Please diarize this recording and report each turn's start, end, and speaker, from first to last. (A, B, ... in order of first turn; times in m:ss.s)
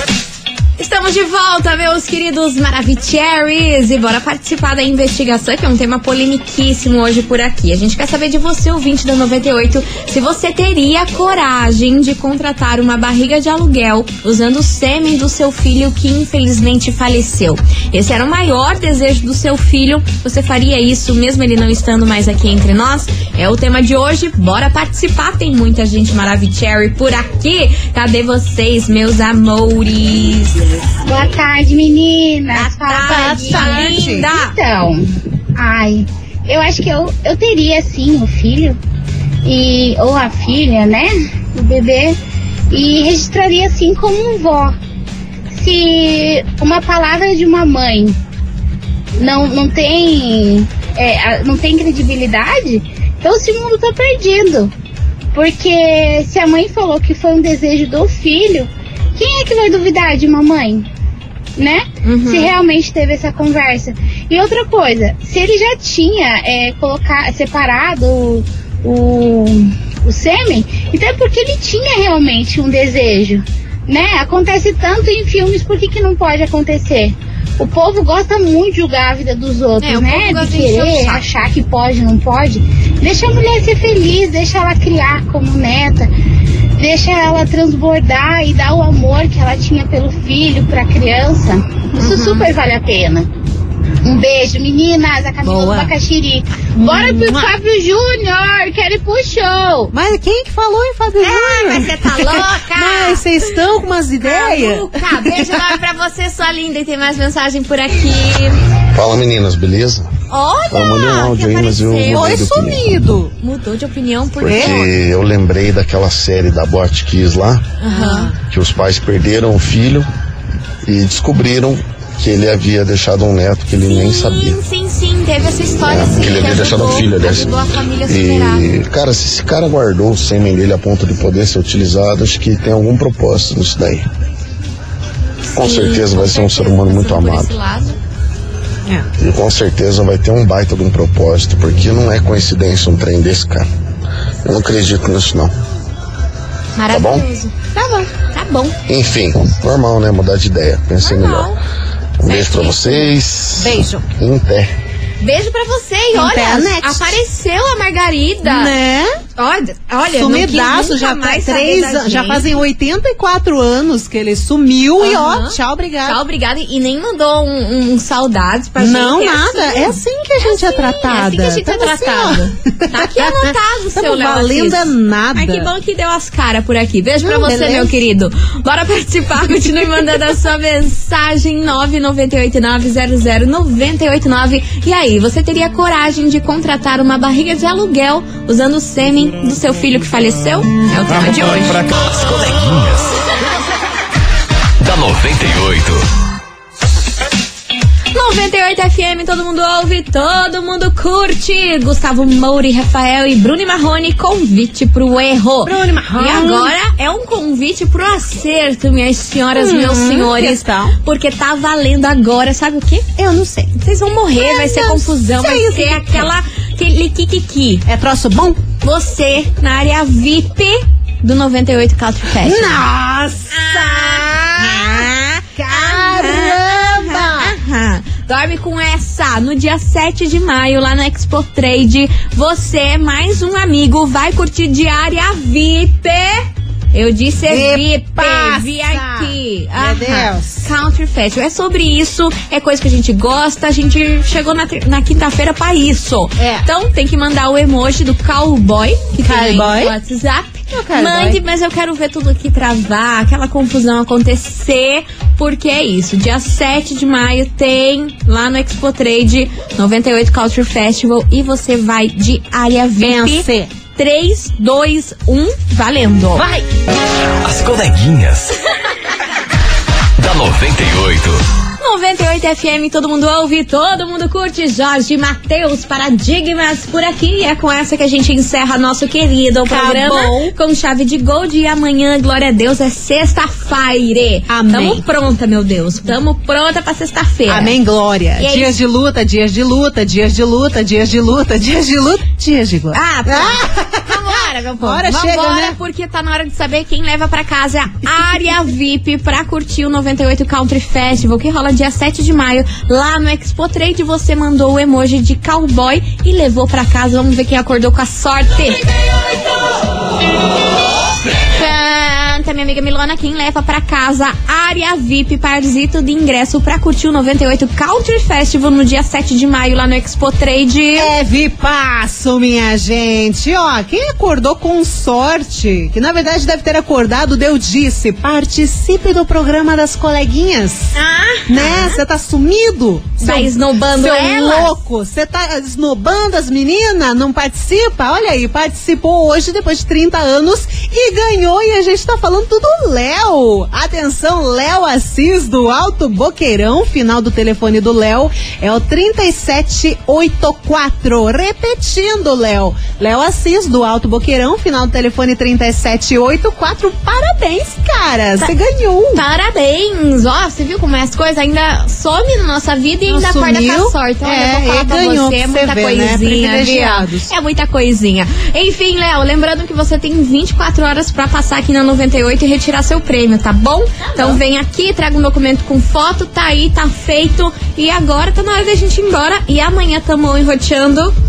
0:00.8-0:30.6 A
0:31.0-0:35.0 B
0:32.5-0:34.5 A
0:33.1-0:34.3 C
0:35.6-0:38.8 B
0:39.4-0:42.2 B
0:42.7-0:44.8 B
0:45.5-0:48.2 B
0:49.2-0:54.7 B
0:55.3-1:00.8 B
1:01.6-1:26.1 B
1:02.0-1:02.5 A
1:19.8-1:21.2 A
1:26.8-1:33.3 B
1:32.0-1:32.5 A
1:34.0-1:39.9 B
1:35.4-1:35.9 C
1:36.7-1:37.5 C
1:39.9-1:45.7 C
1:41.2-1:43.5 A
1:44.2-1:48.6 A
1:48.9-1:50.1 D
1:50.3-1:52.4 A
1:50.7-1:53.0 D
1:52.1-1:53.3 C
1:53.4-1:55.0 A
1:54.4-1:57.7 D
1:54.4-1:54.8 C
1:57.8-1:58.3 A
1:57.9-1:58.4 C
1:58.5-2:00.0 D
2:00.8-2:04.6 D
2:03.7-2:08.6 A
2:05.6-2:14.0 D
2:15.5-2:18.0 A
2:15.6-2:17.5 D
2:19.2-2:23.7 D
2:24.4-2:25.5 D
2:26.8-2:27.5 A
2:26.9-2:27.3 D
2:27.7-2:28.1 C
2:28.3-2:28.8 A
2:28.9-2:31.5 D
2:31.0-2:31.6 A
2:32.2-2:34.7 D
2:32.2-2:33.1 A
2:33.6-2:34.0 C
2:35.2-2:38.7 A
2:36.1-2:37.2 C
2:38.4-2:39.1 C
2:39.4-2:42.5 A
2:40.1-2:46.2 C
2:45.0-3:11.9 A
2:48.8-2:55.7 C
2:57.2-2:58.0 C
3:11.9-3:13.4 E
3:14.8-3:16.0 E
3:18.1-3:33.0 A
3:25.6-3:26.7 C
3:29.5-3:30.9 C
3:33.2-3:33.7 C
3:33.8-3:37.8 A
3:34.4-3:36.3 C
3:37.8-3:38.6 C
3:38.8-3:42.8 A
3:42.3-3:47.5 C
3:43.5-4:26.4 A
3:57.5-4:00.6 C
4:06.4-4:06.7 C
4:09.2-4:09.9 C
4:10.7-4:11.4 C
4:23.0-4:23.7 C
4:26.3-4:26.7 C
4:27.4-4:28.5 E
4:30.2-4:31.4 E
4:31.8-4:47.7 A
4:39.7-4:40.5 C
4:44.5-4:45.0 C
4:47.5-4:55.8 C
4:48.4-4:48.7 A
4:52.9-5:08.8 A
5:11.5-5:21.1 A
5:20.9-5:30.9 C
5:30.9-5:32.0 A
5:31.5-5:59.2 C
5:33.2-5:34.8 A
5:59.1-6:21.1 A
6:03.1-6:07.3 C